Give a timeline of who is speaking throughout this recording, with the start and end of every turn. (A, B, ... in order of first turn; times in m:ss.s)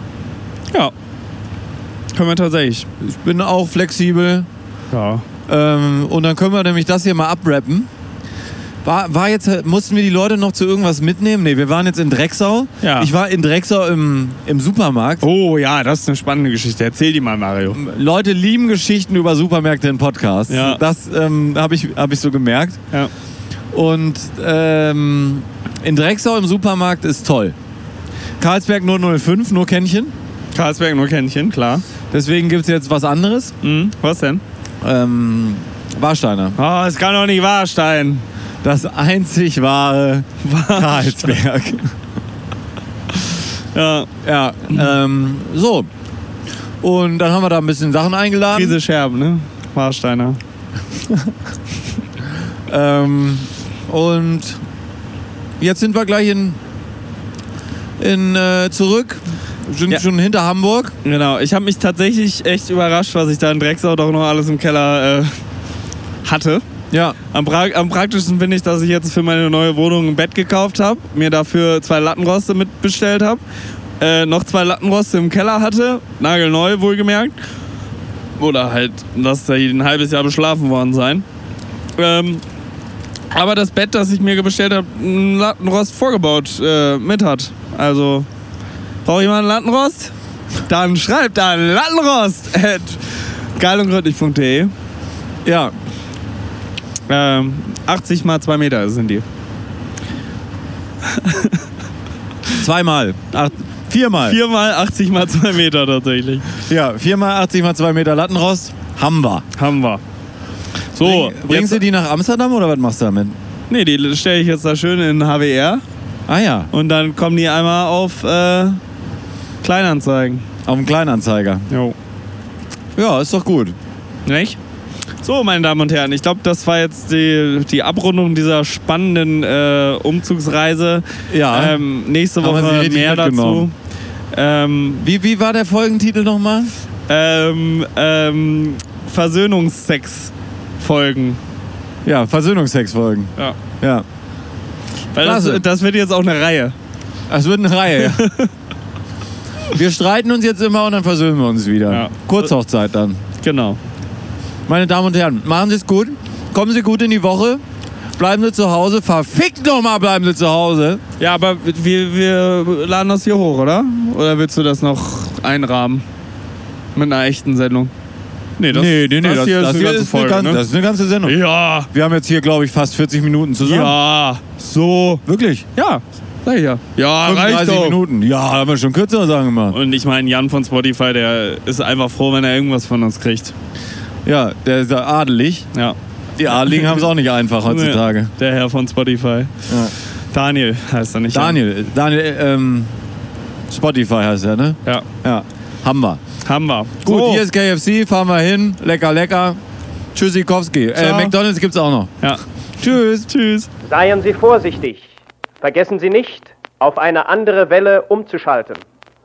0:02.1-0:02.9 A
0:03.0-0:04.5 B
0:04.9-0:05.2 A
0:05.5-0:07.9 B
0:08.8-0:15.2 B
0:12.8-0:13.1 A
0:15.2-0:17.8 A
0:17.7-0:22.8 B
0:20.5-0:20.8 A
0:23.7-0:27.6 B
0:28.4-0:30.1 B
0:30.5-0:31.8 A
0:32.1-0:33.5 B
0:33.6-0:34.4 A
0:34.8-0:36.6 B
0:36.6-0:38.2 A
0:38.6-0:41.9 B
0:40.4-0:41.4 A
0:43.7-0:44.1 A
0:44.2-0:45.9 B
0:46.8-0:48.8 B
0:48.5-0:50.4 A
0:52.7-0:54.6 B
0:55.6-0:56.6 B
0:58.0-1:00.9 B
1:01.0-1:05.4 A
1:06.2-1:06.6 A
1:06.9-1:07.2 B
1:07.3-1:13.4 A
1:14.0-1:17.4 A
1:18.4-1:21.2 A
1:22.0-1:22.4 A
1:23.3-1:28.3 A
1:29.0-1:30.1 A
1:30.7-1:33.0 A
1:33.6-1:34.7 A
1:35.4-1:35.7 B
1:37.1-1:39.2 A
1:41.1-1:41.6 A
1:42.5-1:44.4 B
1:44.2-1:46.5 A
1:46.7-1:49.4 B
1:49.6-1:50.0 A
1:50.9-1:51.8 A
1:51.0-1:53.4 B
1:53.7-1:55.8 A
1:56.3-1:56.7 B
1:56.7-1:58.8 A
1:59.6-2:00.4 A
2:00.6-2:01.7 B
2:01.7-2:02.0 A
2:03.0-2:03.8 B
2:04.3-2:04.6 A
2:05.2-2:13.7 A
2:11.3-2:11.8 B
2:12.4-2:13.7 B
2:14.3-2:15.0 A
2:15.0-2:16.7 B
2:17.1-2:21.4 A
2:22.0-2:24.0 B
2:25.1-2:26.8 A
2:25.2-2:25.6 B
2:27.3-2:28.2 B
2:28.0-2:28.5 A
2:29.7-2:33.2 B
2:31.9-2:32.5 A
2:33.4-2:33.8 A
2:34.7-2:37.6 B
2:38.2-2:41.0 B
2:41.2-2:46.0 A
2:47.0-2:47.9 A
2:48.6-2:50.6 A
2:48.7-2:51.4 B
2:51.2-2:51.9 A
2:51.9-2:54.0 B
2:53.6-2:55.2 A
2:55.3-2:55.7 B
2:55.8-2:58.0 A
2:57.2-2:59.8 B
2:59.7-3:03.5 A
3:04.3-3:05.7 B
3:05.7-3:07.0 A
3:06.4-3:08.3 B
3:07.6-3:09.5 A
3:09.7-3:09.9 B
3:10.3-3:11.6 A
3:11.3-3:12.9 B
3:13.7-3:16.2 B
3:16.4-3:17.4 A
3:17.0-3:19.6 B
3:20.1-3:22.1 B
3:21.0-3:21.4 A
3:22.8-3:23.3 B
3:23.3-3:23.7 A
3:23.8-3:25.1 C
3:25.6-3:28.8 C